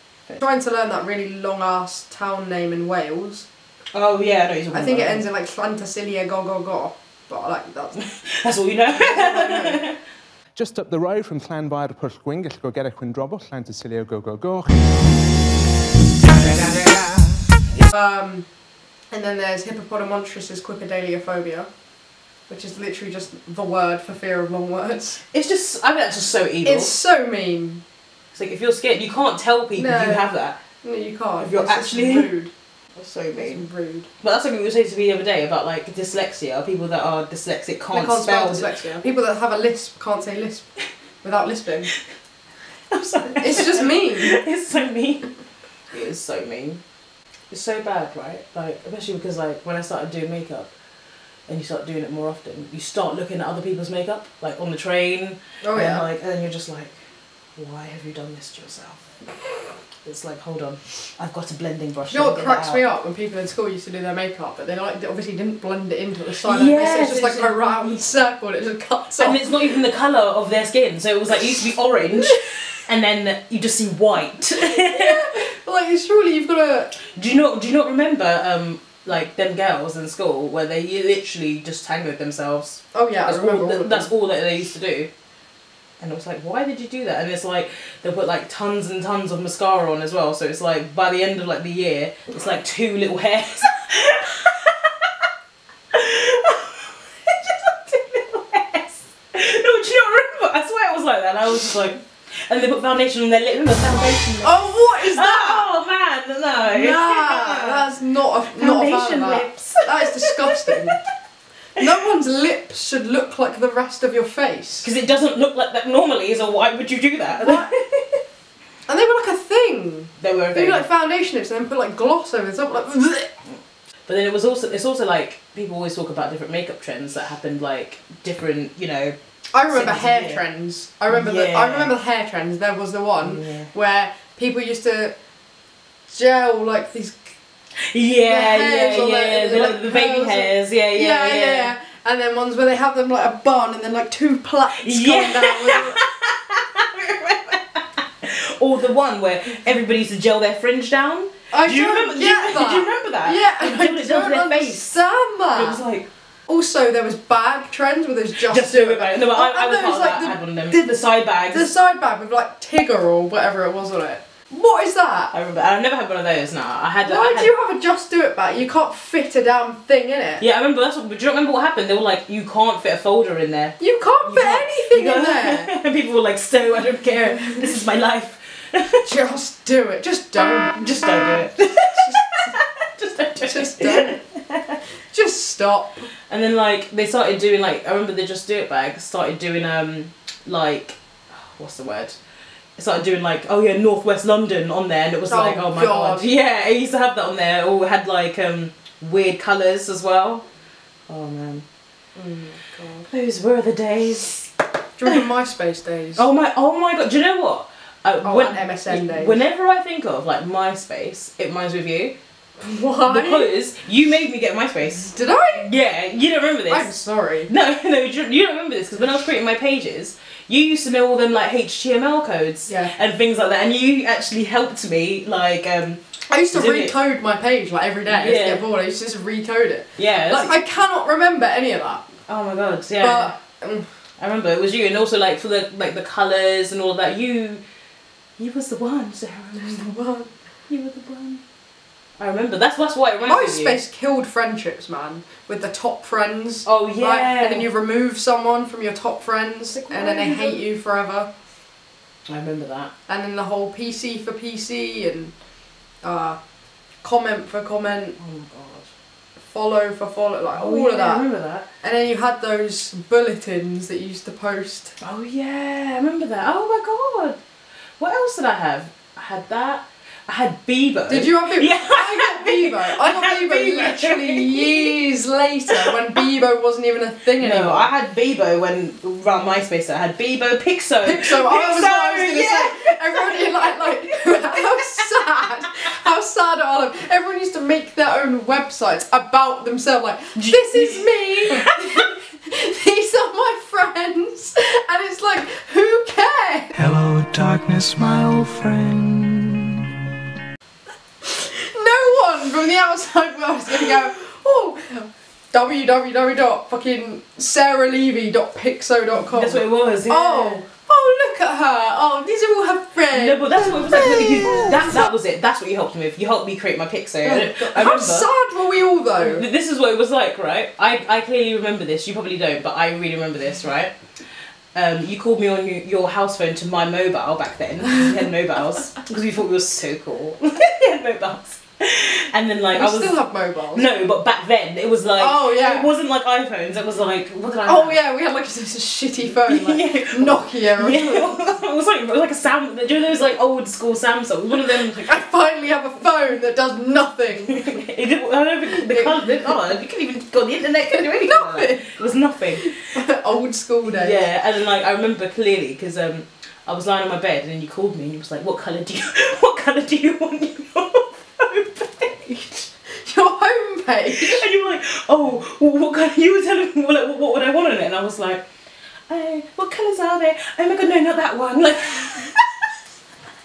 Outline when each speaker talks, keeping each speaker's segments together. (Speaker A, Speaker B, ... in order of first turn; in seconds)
Speaker A: 0.3-3.5, 4.7-8.0, 8.9-9.8, 17.9-18.5, 19.1-21.7, 22.5-25.2, 26.6-27.8, 29.8-30.3, 30.8-32.5, 33.4-34.1, 37.9-41.9, 43.4-44.4, 55.6-56.0, 62.1-69.6, 74.6-76.9, 82.9-84.1, 104.4-105.7, 106.7-111.0, 111.8-114.9, 117.4-117.7, 118.9-123.3, 129.5-135.2, 136.1-137.4, 138.3-146.0, 151.5-155.8, 156.5-160.9, 161.5-165.3, 167.0-170.4, 173.8-175.7, 176.8-177.7, 179.0-182.6, 183.4-184.2, 185.1-186.1, 195.3-196.3, 202.2-203.1, 205.0-206.2, 208.2-209.4, 212.6-213.5, 215.0-215.7, 216.7-217.5, 222.7-222.9, 226.3-232.1, 233.0-233.9, 239.6-240.3, 243.3-251.3, 253.1-255.3, 256.0-256.4, 257.0-258.2, 259.5-261.2, 261.8-264.9, 271.1-277.9, 281.0-296.8, 301.2-315.1, 317.2-319.5, 332.7-333.9, 335.2-335.9, 337.6-341.4, 344.8-347.8, 348.9-349.6, 350.9-352.0, 352.6-354.2, 363.0-364.4
Speaker B: 3.9-5.2, 8.0-10.0, 25.3-26.9, 28.3-30.6, 31.4-32.3, 33.0-33.7, 34.2-38.7, 42.9-45.3, 45.9-46.8, 47.5-50.7, 51.5-57.0, 57.6-59.2, 60.0-62.8, 66.5-68.1, 69.2-75.4, 77.0-85.1, 86.0-95.1, 95.9-107.8, 108.5-110.9, 114.8-118.2, 120.2-120.9, 124.1-130.4, 131.1-131.9, 133.2-133.7, 137.8-141.7, 144.7-154.9, 155.6-156.1, 158.4-161.7, 165.3-167.5, 170.4-179.1, 180.7-184.8, 186.3-192.2, 192.8-200.4, 201.1-201.7, 203.1-204.5, 206.2-212.2, 213.1-216.9, 217.5-226.9, 228.1-228.6, 230.0-230.5, 232.3-233.3, 234.2-237.6, 238.4-239.9, 240.7-241.4, 242.2-243.8, 246.7-247.7, 249.7-250.6, 252.3-252.9, 258.2-258.9, 260.5-261.7, 265.0-267.4, 268.0-274.9, 277.4-285.0, 290.4-292.1, 309.3-310.6, 313.1-318.3, 319.2-323.9, 324.7-333.2, 333.7-338.0, 339.5-345.1, 347.5-352.8, 353.9-362.7, 364.1-368.4, 369.1-372.4
Speaker C: 10.6-15.1
Speaker D: 296.8-299.9